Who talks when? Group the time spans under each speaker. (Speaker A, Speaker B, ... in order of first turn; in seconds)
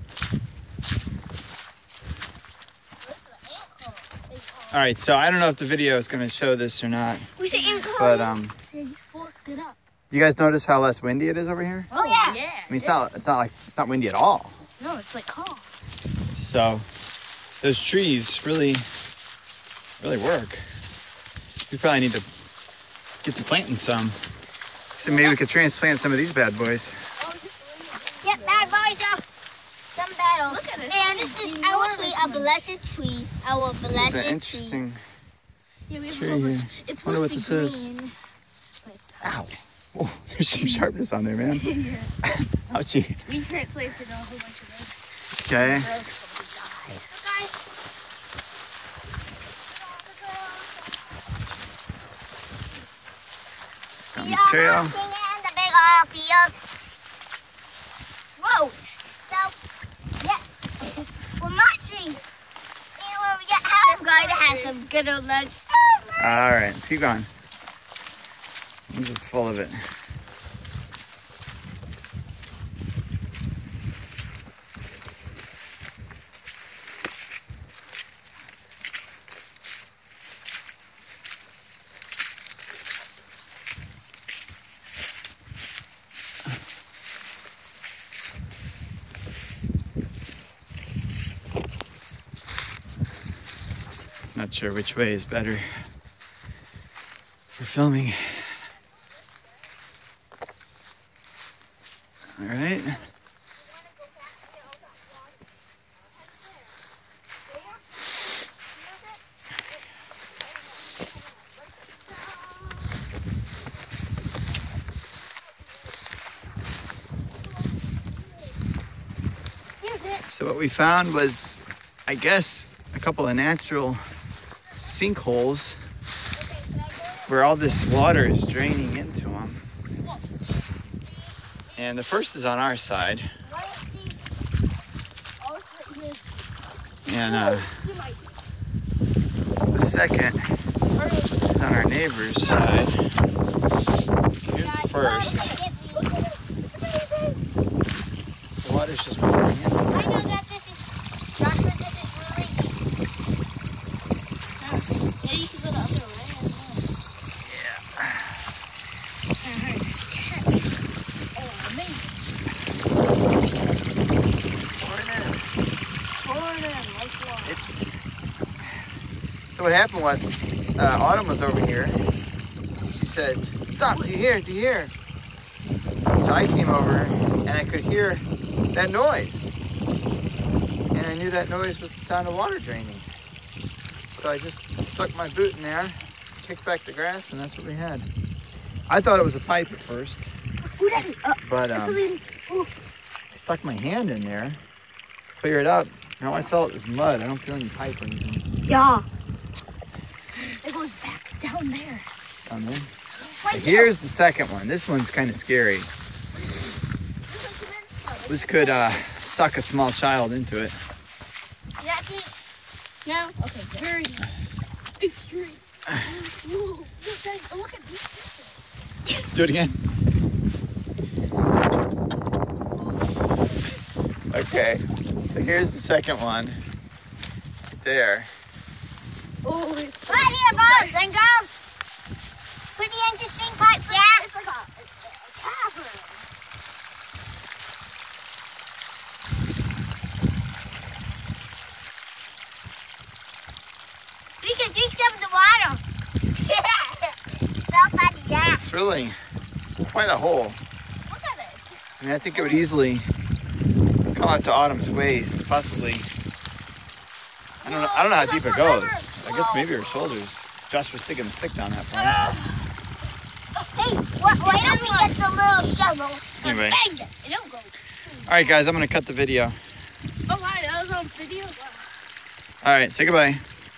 Speaker A: 3.5-4.2, 7.4-9.8, 11.9-12.9, 14.8-15.6, 27.2-28.9, 30.5-32.5, 35.9-38.1, 38.8-39.5, 41.5-42.1, 43.2-47.1, 58.4-58.8, 64.1-64.8, 112.3-112.7, 135.4-136.5, 137.1-138.3, 140.9-141.3, 145.1-147.4, 154.6-156.9, 159.4-160.6, 161.3-162.3, 166.2-167.6, 190.7-192.7, 198.7-199.0, 200.5-202.1, 206.3-208.9, 213.4-214.3, 215.0-218.6, 229.4-231.0, 233.8-236.2, 251.1-252.7, 257.6-260.2, 261.9-262.7, 264.4-265.3, 266.4-268.6, 270.3-271.9
Speaker B: 4.7-7.3, 8.0-8.6, 10.1-11.9, 12.7-14.7, 16.3-16.9, 17.6-18.9, 20.0-20.6, 21.7-22.3, 23.2-24.2, 25.0-26.9, 33.9-35.0, 36.1-37.9, 39.2-41.7, 42.2-43.2, 45.4-45.9, 54.1-55.0, 66.2-67.3, 68.9-69.8, 94.3-95.7, 97.5-98.4, 102.4-103.0, 120.3-124.0, 124.8-125.8, 127.3-129.7, 131.8-133.3, 137.1-137.8, 139.7-140.4, 141.5-143.0, 144.4-145.5, 148.6-150.3, 157.4-158.4, 164.6-165.5, 167.4-167.7, 169.5-172.0, 172.8-174.9, 176.1-179.5, 180.9-183.1, 184.1-188.1, 188.9-190.3, 191.4-192.0, 193.3-194.6, 195.3-198.4, 202.5-202.9, 203.4-205.9, 208.3-210.8, 219.3-219.8, 224.3-226.6, 227.8-228.3, 248.4-249.1, 249.8-250.6, 252.0-253.1, 254.1-256.1, 257.6-262.2, 266.4-266.8, 268.2-269.6, 272.6-273.4
Speaker C: 7.4-8.2, 11.9-12.4, 25.0-25.4, 28.2-29.2, 29.9-34.8, 47.1-47.5, 50.3-50.7, 54.1-56.6, 59.3-59.5, 60.2-60.4, 61.0-62.2, 63.0-66.4, 119.8-120.2, 126.3-127.4, 133.4-134.2, 144.5-146.1, 149.9-152.8, 203.4-203.9, 211.8-212.3, 213.0-213.8, 230.1-231.5, 232.8-234.2, 244.4-245.8, 246.4-247.1, 247.7-248.6, 263.7-266.2